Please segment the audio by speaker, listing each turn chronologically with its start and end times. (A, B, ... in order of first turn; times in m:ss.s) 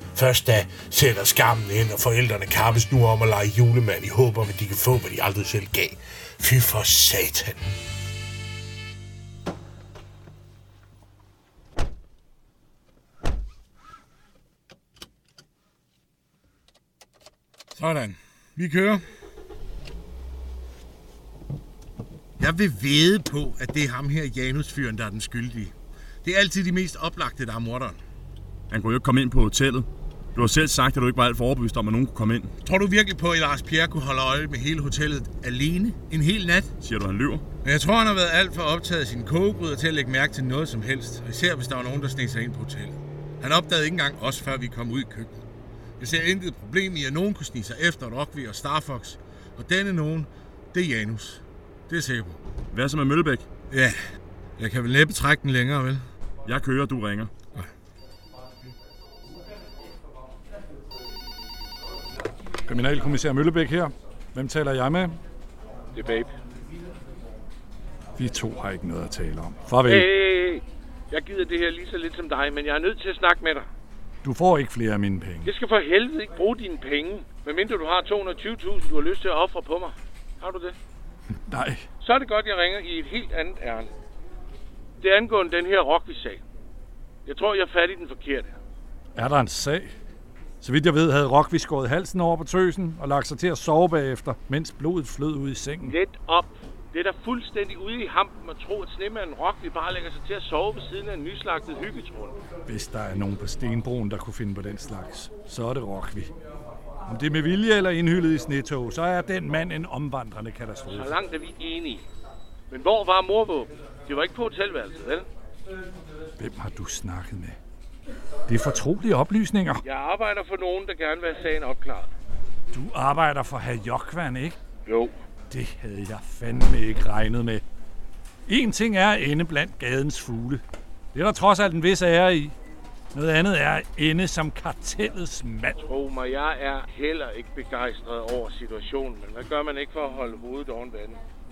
0:00.2-0:07.7 A
0:17.8-0:19.0 B
0:22.4-0:28.0 B
0:28.7-0:32.5 C
0:32.6-0:36.7 B
0:36.8-0:37.4 C
0:37.6-0:45.4 B
0:46.0-0:52.4 B
0:52.7-0:53.5 C
0:53.7-0:54.0 B
0:54.6-0:56.0 B
0:56.4-0:57.3 C
1:02.7-1:05.2 D
1:05.9-1:06.3 E
1:08.2-1:10.1 D
1:09.8-1:13.7 E
1:14.2-1:15.5 D
1:15.4-1:20.8 E
1:21.5-1:21.8 D
1:22.0-1:23.9 E
1:25.0-1:26.4 E
1:27.3-1:28.6 E
1:29.2-1:29.9 D
1:30.6-1:36.0 D
1:35.9-1:42.4 E
1:42.7-1:46.3 D
1:47.1-1:51.2 D
1:50.9-1:52.1 E
1:52.7-1:55.3 E
1:56.4-1:57.6 D
1:58.5-1:59.8 D
1:59.8-2:02.1 E
2:02.7-2:04.6 D
2:04.9-2:05.2 E
2:05.5-2:07.6 D
2:08.5-2:10.6 D
2:11.1-2:12.6 D
2:13.1-2:15.8 D
2:15.8-2:21.2 E